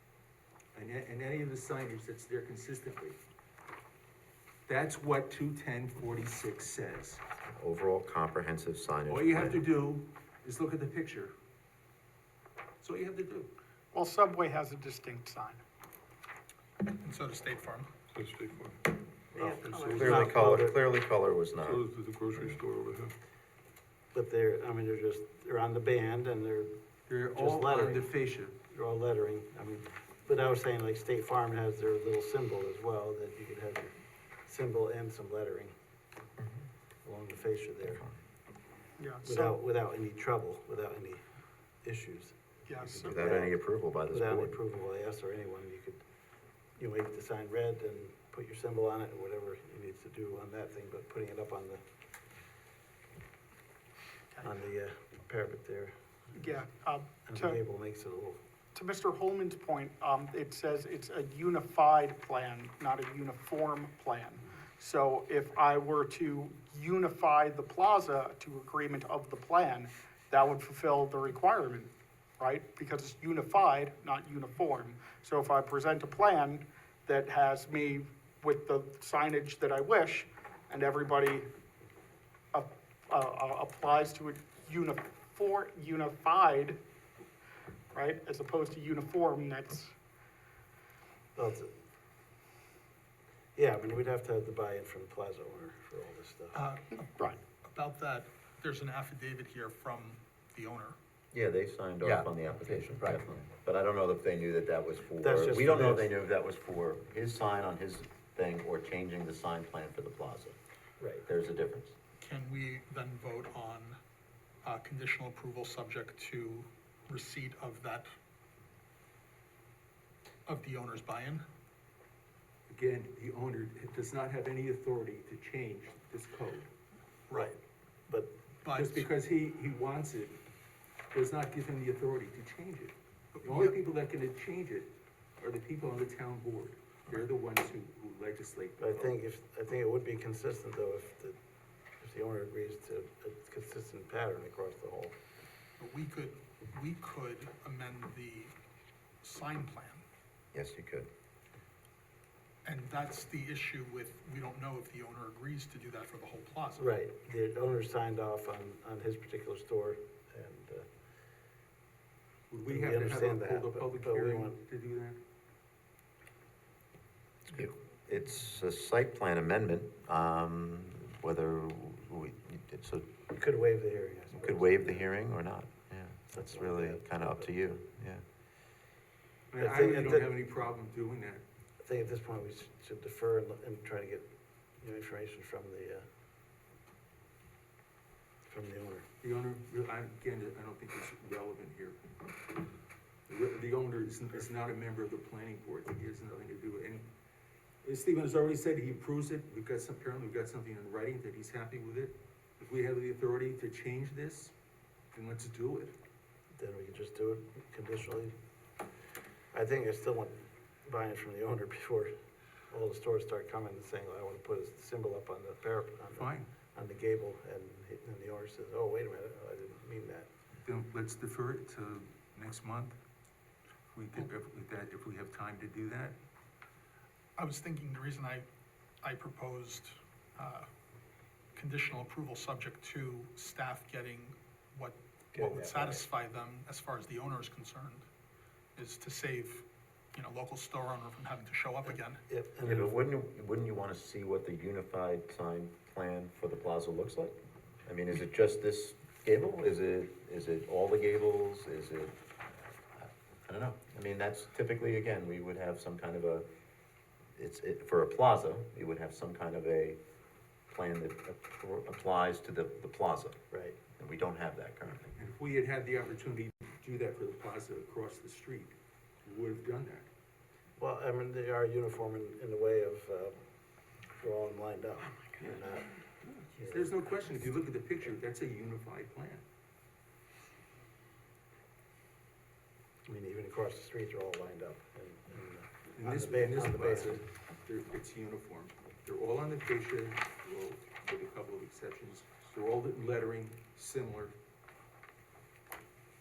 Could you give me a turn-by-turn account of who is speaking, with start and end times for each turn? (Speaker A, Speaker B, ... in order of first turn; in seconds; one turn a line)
Speaker A: 0.7-3.2
Speaker A: 4.7-7.2
Speaker B: 7.5-9.6
Speaker A: 9.1-11.3
Speaker A: 12.8-13.5
Speaker C: 13.9-15.6
Speaker D: 16.8-17.9
Speaker E: 18.1-20.6
Speaker F: 19.4-20.8
Speaker B: 19.9-21.8
Speaker E: 21.6-23.2
Speaker F: 24.1-26.7
Speaker A: 27.1-28.6
Speaker F: 27.3-28.1
Speaker F: 28.7-33.9
Speaker F: 34.5-35.8
Speaker F: 37.0-38.1
Speaker C: 39.0-39.6
Speaker F: 39.2-41.2
Speaker F: 41.8-43.5
Speaker C: 42.7-43.2
Speaker B: 43.0-44.6
Speaker F: 44.1-46.0
Speaker F: 46.8-51.8
Speaker F: 54.4-56.4
Speaker C: 56.3-57.6
Speaker F: 57.2-58.4
Speaker C: 58.7-81.5
Speaker C: 82.5-86.8
Speaker C: 87.9-89.9
Speaker F: 91.4-91.7
Speaker F: 93.5-96.7
Speaker D: 96.5-101.0
Speaker C: 97.0-97.4
Speaker B: 101.3-110.6
Speaker F: 105.2-106.1
Speaker B: 111.2-112.0
Speaker D: 112.2-114.0
Speaker D: 114.6-118.1
Speaker D: 120.5-121.5
Speaker A: 122.7-126.7
Speaker D: 127.3-127.5
Speaker F: 127.3-127.6
Speaker D: 128.6-129.1
Speaker A: 128.7-130.4
Speaker A: 131.1-139.1
Speaker D: 133.4-133.8
Speaker F: 138.8-141.4
Speaker F: 142.0-145.2
Speaker D: 145.8-148.5
Speaker D: 149.2-150.0
Speaker B: 150.5-151.1
Speaker D: 152.7-156.8
Speaker F: 156.8-160.9
Speaker A: 162.5-165.2
Speaker F: 162.7-164.6
Speaker B: 167.5-173.2
Speaker F: 173.3-175.1
Speaker B: 174.4-178.2
Speaker F: 176.3-177.5
Speaker A: 179.5-181.4
Speaker F: 179.6-180.3
Speaker F: 181.8-184.3
Speaker F: 184.8-186.1
Speaker F: 188.5-189.1
Speaker A: 189.2-192.0
Speaker A: 193.3-197.1
Speaker A: 197.8-204.5
Speaker A: 205.1-205.9
Speaker F: 206.6-208.3
Speaker F: 209.5-212.1
Speaker F: 212.7-220.3
Speaker A: 216.1-216.5
Speaker A: 220.6-223.0
Speaker A: 223.9-226.2
Speaker D: 227.4-228.5
Speaker D: 229.0-230.7
Speaker D: 231.6-238.1
Speaker F: 235.3-236.1
Speaker D: 238.8-242.2
Speaker F: 241.9-243.0
Speaker B: 242.6-252.2
Speaker B: 252.9-256.5
Speaker B: 257.4-260.0
Speaker B: 260.7-263.4
Speaker F: 263.5-263.8
Speaker B: 263.9-265.1
Speaker A: 265.2-270.1
Speaker F: 270.8-273.4
Speaker F: 274.1-275.9
Speaker A: 276.2-279.4
Speaker F: 276.6-276.9
Speaker F: 283.1-287.2
Speaker A: 285.9-294.4